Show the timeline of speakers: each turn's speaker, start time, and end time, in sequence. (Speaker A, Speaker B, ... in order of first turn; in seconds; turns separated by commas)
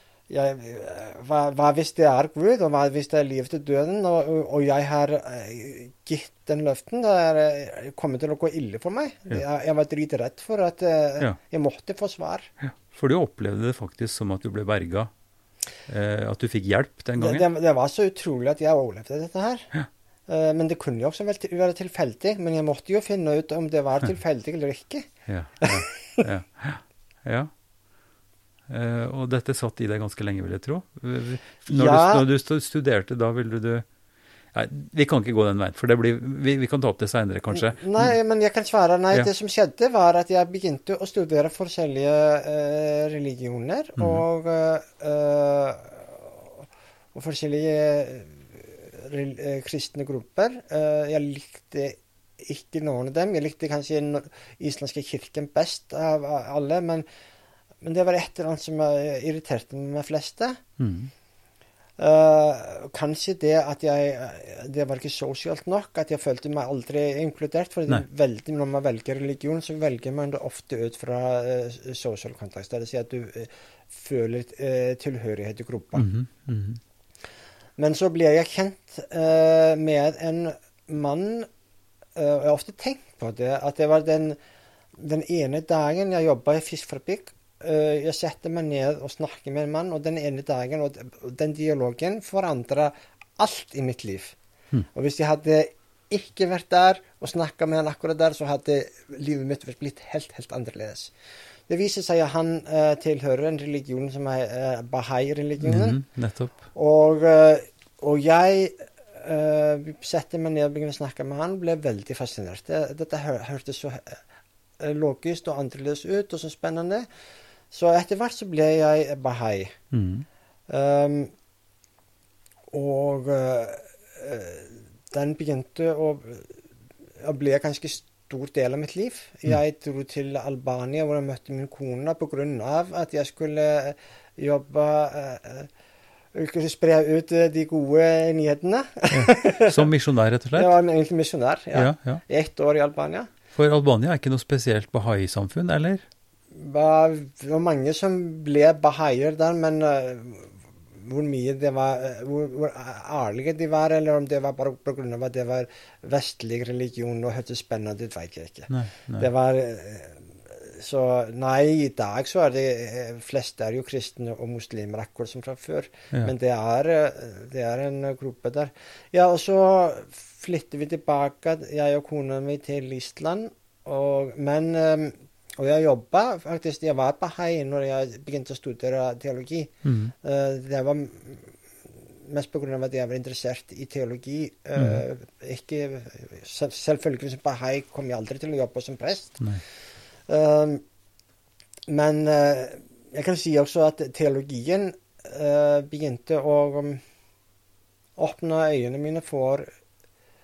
Speaker A: 0.3-12.5, Speaker B: 12.6-15.1, Speaker B: 15.9-17.4, Speaker A: 17.2-19.7, Speaker A: 20.3-25.1, Speaker B: 25.3-27.5, Speaker A: 25.6-26.2, Speaker B: 28.7-33.9, Speaker A: 31.7-32.2, Speaker B: 34.5-38.1, Speaker A: 37.5-57.0, Speaker B: 44.0-44.2, Speaker A: 57.8-60.6, Speaker B: 60.8-61.1, Speaker A: 62.0-76.1, Speaker B: 75.9-76.8, Speaker A: 77.8-81.5, Speaker A: 82.1-84.4, Speaker A: 85.0-94.3, Speaker A: 94.9-101.1, Speaker A: 101.7-106.0, Speaker B: 105.6-106.5, Speaker A: 106.7-114.2, Speaker A: 114.8-117.1, Speaker A: 117.7-119.8, Speaker B: 119.9-120.2, Speaker A: 120.7-121.3, Speaker A: 122.7-126.6, Speaker A: 127.2-135.7, Speaker A: 136.3-139.9, Speaker B: 139.1-140.7, Speaker A: 140.5-143.3, Speaker B: 141.7-142.2, Speaker B: 143.5-146.0, Speaker A: 146.5-181.6, Speaker B: 158.7-159.3, Speaker B: 179.8-180.1, Speaker A: 182.1-189.4, Speaker B: 184.8-185.0, Speaker A: 190.3-190.8, Speaker A: 191.9-197.0, Speaker A: 198.2-199.7